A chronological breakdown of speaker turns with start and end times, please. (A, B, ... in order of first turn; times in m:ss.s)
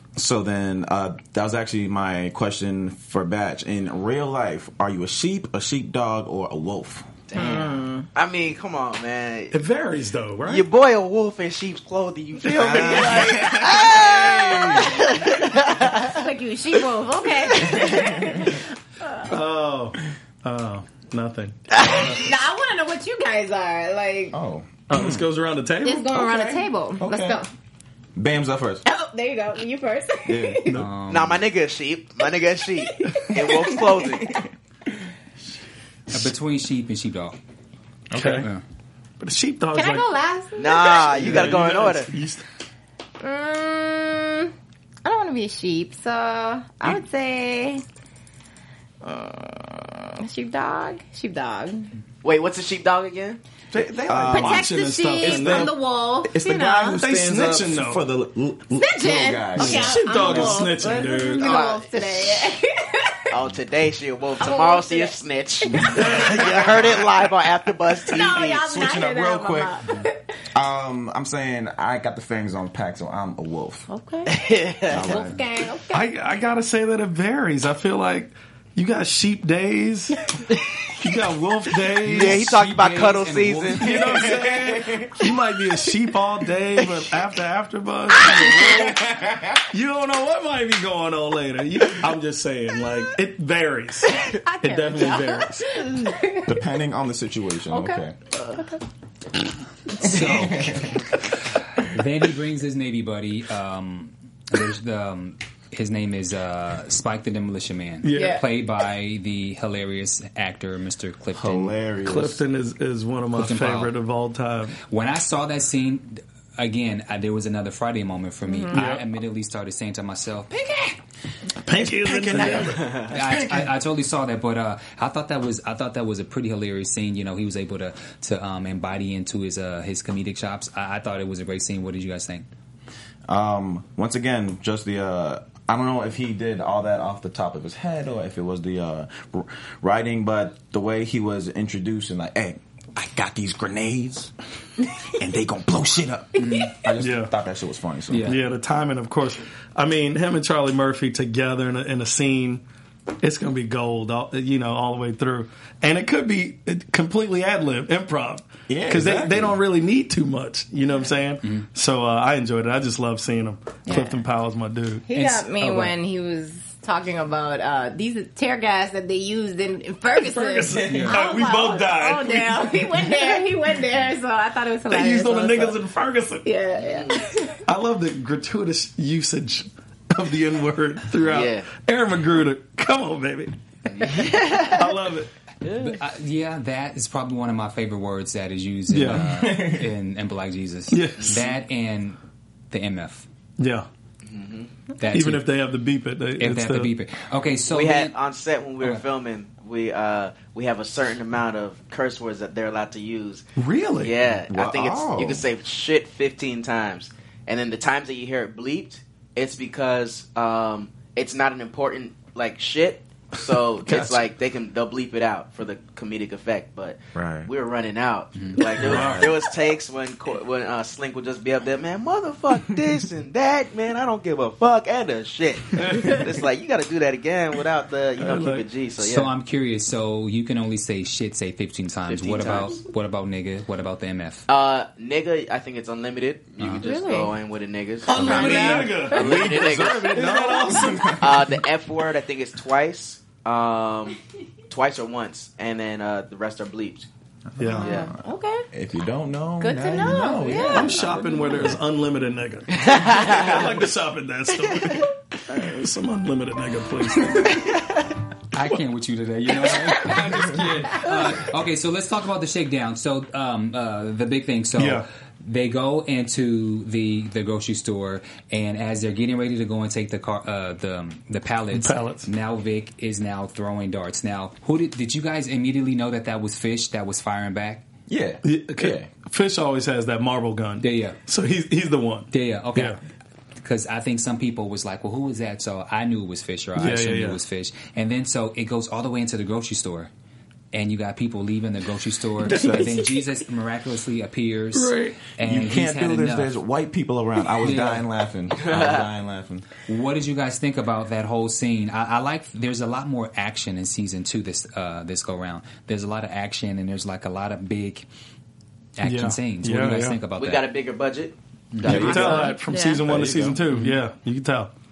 0:00.2-0:07.1 A
0:07.3-0:09.6 B
0:07.4-0:08.1 C
0:09.5-0:10.7 D
0:10.4-0:16.2 B
0:12.4-0:15.2 A
0:16.0-0:19.3 C
0:17.5-0:18.2 B
0:17.6-0:18.5 A
0:19.3-0:21.6 D
0:21.7-0:22.2 B
0:21.8-0:24.4 C
0:24.3-0:25.2 A
0:24.9-0:26.2 D
0:25.8-0:27.5 C
0:26.2-0:27.4 A
0:28.2-0:28.8 A
0:28.8-0:30.8 C
0:30.3-0:30.7 A
0:30.7-0:31.4 E
0:31.1-0:34.4 B
0:32.8-0:34.3 C
0:36.1-0:37.4 E
0:38.1-0:38.5 A
0:38.1-0:38.5 D
0:38.2-0:38.6 E
0:39.2-0:40.1 D
0:39.7-0:41.4 C
0:40.6-0:42.1 B
0:41.1-0:42.4 D
0:43.2-0:44.5 C
0:45.0-0:47.8 C
0:49.0-0:51.9 C
0:52.2-0:53.4 B
0:53.7-1:00.8 A
0:53.8-0:55.8 D
0:54.3-0:57.0 C
0:56.9-0:58.0 D
0:58.8-1:03.4 C
0:59.6-1:01.6 D
1:01.4-1:02.5 B
1:03.3-1:08.6 B
1:04.4-1:05.2 C
1:05.7-1:06.3 C
1:06.0-1:06.3 A
1:08.1-1:10.2 C
1:08.3-1:09.8 A
1:10.5-1:13.9 A
1:13.9-1:14.4 C
1:14.3-1:15.2 B
1:14.9-1:15.4 A
1:14.9-1:16.1 C
1:15.9-1:20.2 D
1:21.0-1:22.5 D
1:22.0-1:24.3 B
1:22.2-1:24.2 E
1:23.8-1:29.0 D
1:24.1-1:25.2 A
1:28.4-1:29.7 A
1:29.7-1:35.7 D
1:34.1-1:36.5 C
1:36.4-1:38.2 A
1:37.7-1:38.8 C
1:40.0-1:40.9 E
1:40.0-1:41.0 A
1:41.8-1:51.8 E
1:48.0-1:48.4 D
1:48.1-1:48.4 C
1:51.4-1:52.4 A
1:52.0-1:54.8 D
1:53.3-1:53.9 E
1:54.9-2:00.5 E
1:58.5-1:58.8 C
1:58.7-1:59.0 D
2:01.6-2:03.0 D
2:01.8-2:03.7 A
2:02.7-2:03.2 B
2:03.0-2:12.4 E
2:13.3-2:24.3 A
2:25.0-2:28.3 A
2:26.4-2:26.8 E
2:27.0-2:27.3 D
2:28.1-2:28.4 E
2:28.2-2:32.6 D
2:33.2-2:45.0 D
2:38.7-2:39.6 A
2:43.9-2:44.2 C
2:45.1-2:55.8 C
2:45.1-2:45.9 E
2:50.1-2:53.4 D
2:50.9-2:51.2 E
2:54.9-2:56.5 D
2:56.4-2:57.6 C
2:56.8-2:57.3 B
2:57.6-3:05.3 D
3:01.2-3:01.7 B
3:03.9-3:04.9 B
3:05.6-3:12.2 E
3:08.9-3:09.3 D
3:09.1-3:09.9 A
3:10.9-3:11.4 D
3:11.2-3:11.6 B
3:12.7-3:13.3 E
3:13.6-3:13.9 D
3:14.2-3:14.7 B
3:15.0-3:15.4 E
3:15.1-3:16.9 D
3:16.4-3:18.1 E
3:17.7-3:23.4 B
3:23.6-3:24.2 D
3:24.0-3:49.3 B
3:24.5-3:25.5 A
3:33.8-3:34.2 D
3:37.2-3:37.5 A
3:38.4-3:38.6 E
3:38.8-3:39.3 D
3:38.8-3:39.4 A
3:45.8-3:46.2 D
3:48.2-3:48.7 D
3:49.0-3:54.5 E
3:52.1-3:52.8 B
3:54.5-4:00.4 B
3:56.6-3:56.8 E
3:56.8-3:57.3 C
3:58.1-4:01.2 D
3:58.1-3:59.1 C
3:58.2-3:58.5 E
3:58.3-4:01.6 A
4:01.2-4:04.2 B
4:04.7-4:07.1 B
4:07.5-4:11.7 A
4:07.6-4:07.9 D
4:07.6-4:08.7 C
4:07.8-4:08.1 B
4:09.6-4:11.3 C
4:10.6-4:17.6 D
4:12.7-4:13.8 B
4:14.6-4:15.1 B
4:17.5-4:17.9 B
4:18.5-4:37.9 E
4:19.9-4:21.3 D
4:24.8-4:25.0 D
4:31.7-4:32.3 D
4:38.1-4:39.1 A
4:38.4-4:43.0 D
4:40.8-4:41.2 E
4:42.3-4:43.0 E
4:43.6-4:50.1 E
4:46.8-4:47.4 D
4:50.7-4:56.5 E
4:52.4-4:53.0 A
4:54.7-4:55.3 D
4:55.4-4:59.7 A
4:57.6-4:58.0 E
4:58.6-4:59.0 B
4:59.9-5:08.0 E
5:09.0-5:10.7 E
5:09.0-5:10.2 D
5:10.4-5:11.4 B
5:11.7-5:12.2 E
5:11.8-5:13.6 A
5:11.8-5:14.7 D
5:11.9-5:13.0 C
5:13.7-5:14.0 E